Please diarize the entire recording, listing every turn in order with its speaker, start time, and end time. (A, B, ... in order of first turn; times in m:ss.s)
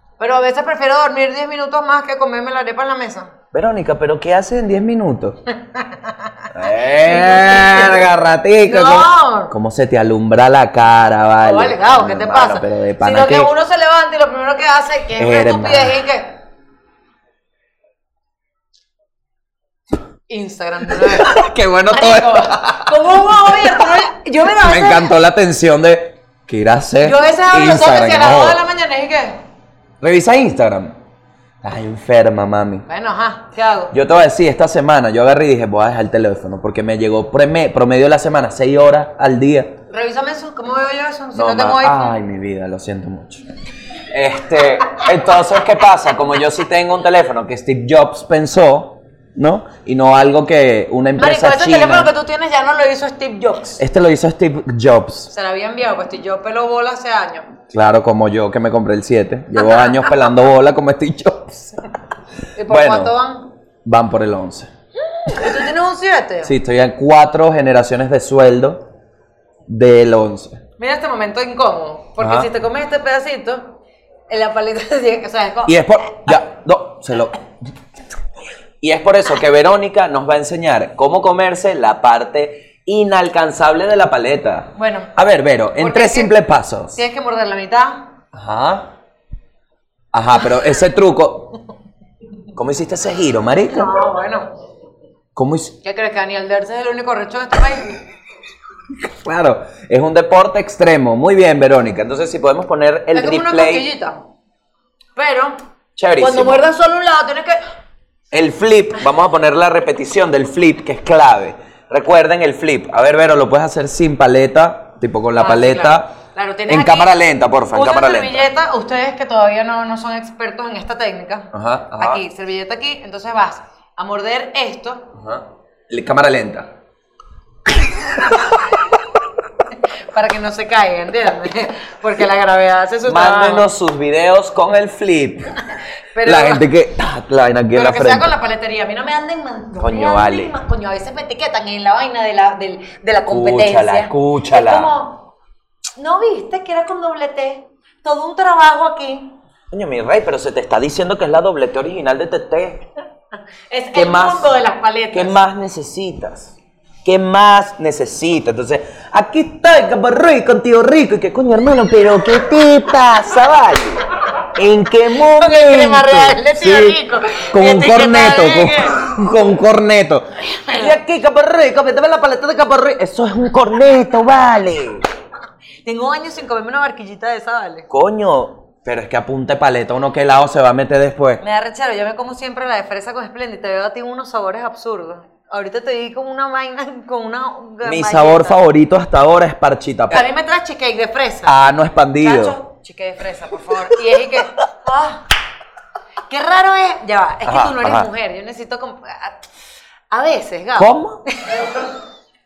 0:00.2-0:03.3 A
0:03.5-0:05.4 B
0:05.7-0:06.5 A
0:06.5-0:13.5 B
0:07.0-0:08.0 A
0:08.6-0:09.5 A
0:11.4-0:16.4 A
0:15.2-0:16.0 B
0:20.3-0:21.4 A
0:20.9-0:24.0 B
0:21.9-0:25.1 A
0:24.6-0:28.6 B
0:27.0-0:29.4 A
0:30.0-0:31.0 B
0:31.6-0:32.8 B
0:32.9-0:34.0 A
0:33.9-0:39.8 B
0:39.9-0:42.2 A
0:41.3-0:43.5 B
0:44.0-0:52.1 B
0:51.2-0:53.8 A
0:53.8-0:55.3 B
0:55.3-0:57.5 A
0:57.7-1:01.9 B
0:59.6-1:00.2 A
1:02.6-1:03.5 A
1:02.7-1:03.2 B
1:03.8-1:04.7 B
1:05.2-1:06.5 A
1:06.4-1:08.9 B
1:09.7-1:10.6 B
1:10.8-1:16.4 A
1:12.2-1:12.5 B
1:15.7-1:17.6 B
1:18.8-1:27.0 B
1:24.8-1:25.1 A
1:25.8-1:26.4 A
1:26.9-1:28.1 A
1:28.3-1:28.9 B
1:30.1-1:31.6 B
1:32.6-1:34.0 B
1:33.7-1:34.5 A
1:35.4-1:35.8 B
1:35.8-1:38.0 A
1:39.0-1:43.9 B
1:43.1-1:44.3 A
1:45.2-1:45.6 A
1:46.0-1:46.6 B
1:46.2-1:47.6 A
1:48.3-1:56.1 B
1:55.4-1:57.1 A
1:56.7-1:58.5 B
1:57.7-2:05.1 A
2:01.5-2:02.2 B
2:05.1-2:06.7 B
2:07.7-2:08.8 B
2:10.1-2:13.7 A
2:13.0-2:15.6 B
2:16.1-2:16.7 A
2:16.2-2:18.4 B
2:17.8-2:25.3 A
2:19.8-2:20.5 B
2:23.3-2:24.9 B
2:26.0-2:29.4 A
2:29.7-2:32.8 B
2:33.7-2:35.4 A
2:33.9-2:34.6 B
2:35.1-2:55.1 B
2:45.2-2:49.0 A
2:50.4-2:51.0 A
2:55.8-2:57.9 A
2:57.9-3:01.4 B
3:01.4-3:08.6 A
3:07.8-3:10.3 B
3:10.1-3:11.6 A
3:11.4-3:12.6 B
3:12.2-3:15.2 A
3:16.3-3:19.4 A
3:17.4-3:18.1 B
3:20.1-3:21.9 A
3:20.8-3:21.2 B